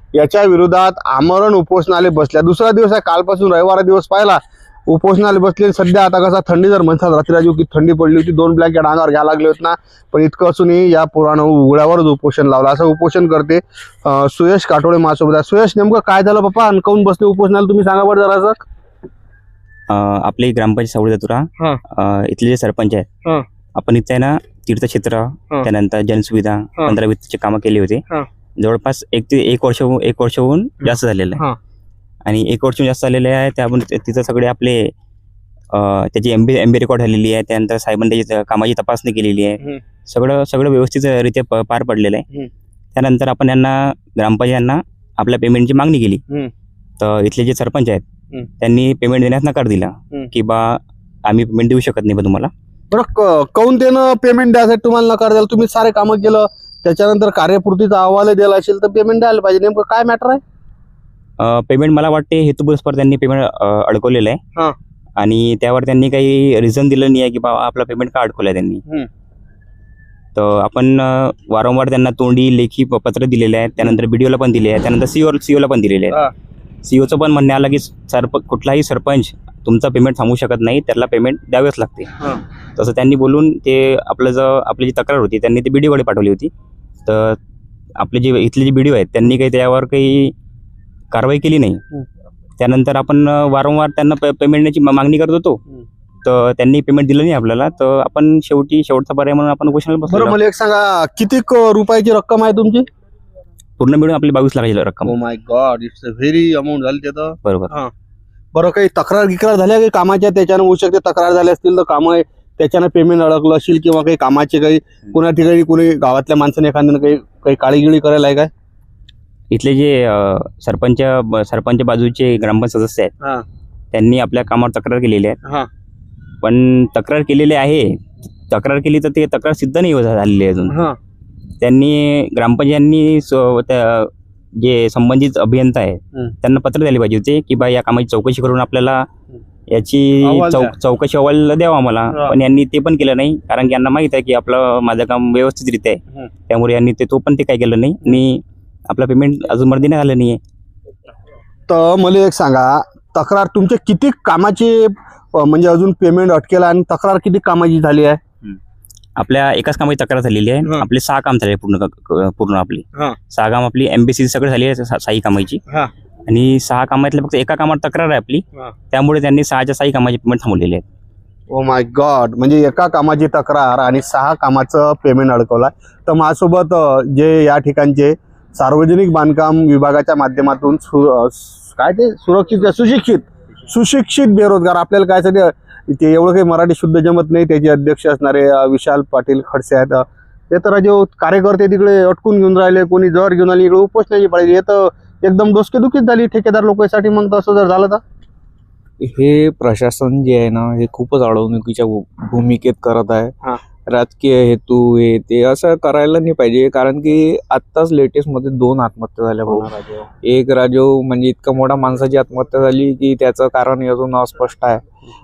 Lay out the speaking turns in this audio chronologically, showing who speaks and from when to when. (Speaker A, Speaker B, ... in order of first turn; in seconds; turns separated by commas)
Speaker A: 0.1-18.6, Speaker B: 19.9-23.1, Speaker B: 23.8-28.0, Speaker B: 28.6-31.4, Speaker B: 32.2-34.9, Speaker B: 35.7-42.2, Speaker B: 42.9-46.2, Speaker B: 47.0-48.0, Speaker B: 48.6-52.5, Speaker A: 52.9-60.4, Speaker B: 61.4-64.4, Speaker B: 65.2-68.8, Speaker B: 70.3-76.2, Speaker B: 76.8-82.1, Speaker B: 82.8-86.5, Speaker B: 87.0-87.4, Speaker B: 88.0-90.3, Speaker B: 91.1-91.8, Speaker B: 92.6-95.6, Speaker B: 96.2-100.4, Speaker A: 100.1-102.8, Speaker B: 103.8-105.1, Speaker A: 105.0-107.9, Speaker B: 107.4-107.7, Speaker A: 108.5-118.5, Speaker B: 119.5-123.1, Speaker B: 123.9-125.4, Speaker B: 126.4-128.0, Speaker B: 128.5-130.7, Speaker A: 130.7-131.0, Speaker B: 131.6-139.1, Speaker B: 139.7-150.4, Speaker A: 140.2-140.7, Speaker A: 151.7-158.2, Speaker B: 159.2-165.6, Speaker B: 166.3-170.8, Speaker A: 171.5-198.0, Speaker C: 199.0-203.3, Speaker C: 203.8-214.8, Speaker A: 209.4-209.7